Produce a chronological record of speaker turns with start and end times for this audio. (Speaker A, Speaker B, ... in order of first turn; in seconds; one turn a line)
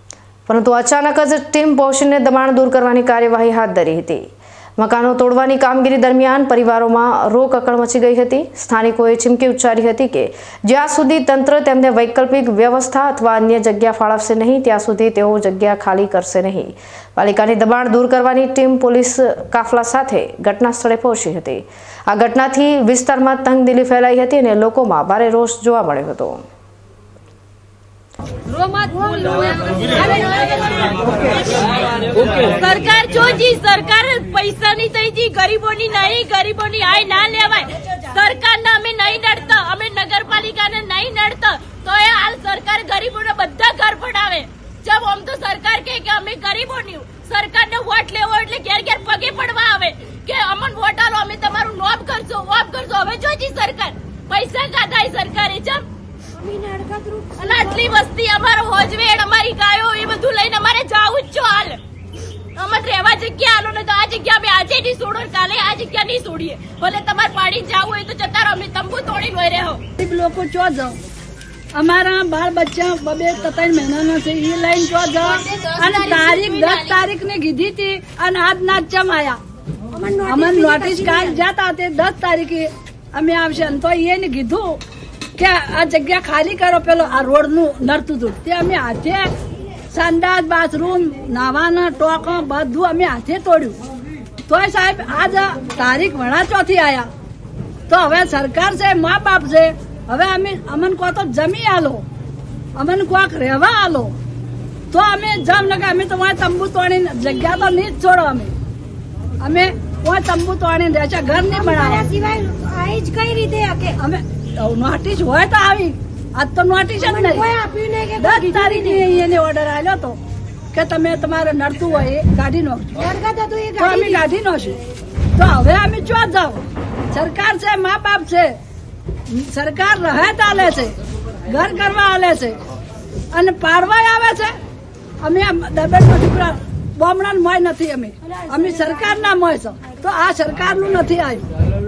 Speaker A: 0.5-26.4
Speaker B: 28.9-30.9
Speaker C: 32.3-55.9
Speaker B: 56.4-57.9
Speaker C: 57.4-61.8
Speaker C: 62.6-69.8
Speaker D: 70.0-71.0
Speaker D: 71.8-79.4
Speaker C: 75.3-77.1
Speaker B: 79.9-81.4
Speaker D: 80.3-84.8
Speaker D: 85.4-89.3
Speaker D: 89.9-93.8
Speaker D: 94.5-97.1
Speaker D: 97.9-102.0
Speaker D: 102.8-104.1
Speaker D: 104.9-108.5
Speaker D: 109.4-112.1
Speaker B: 111.5-114.0
Speaker D: 114.0-117.5
Speaker B: 117.0-119.0
Speaker D: 118.2-120.2
Speaker D: 120.7-123.0
Speaker B: 123.0-124.2
Speaker D: 123.8-124.8
Speaker D: 125.4-128.6
Speaker D: 129.3-132.6
Speaker D: 133.3-134.5
Speaker D: 135.2-141.4
Speaker B: 138.3-139.2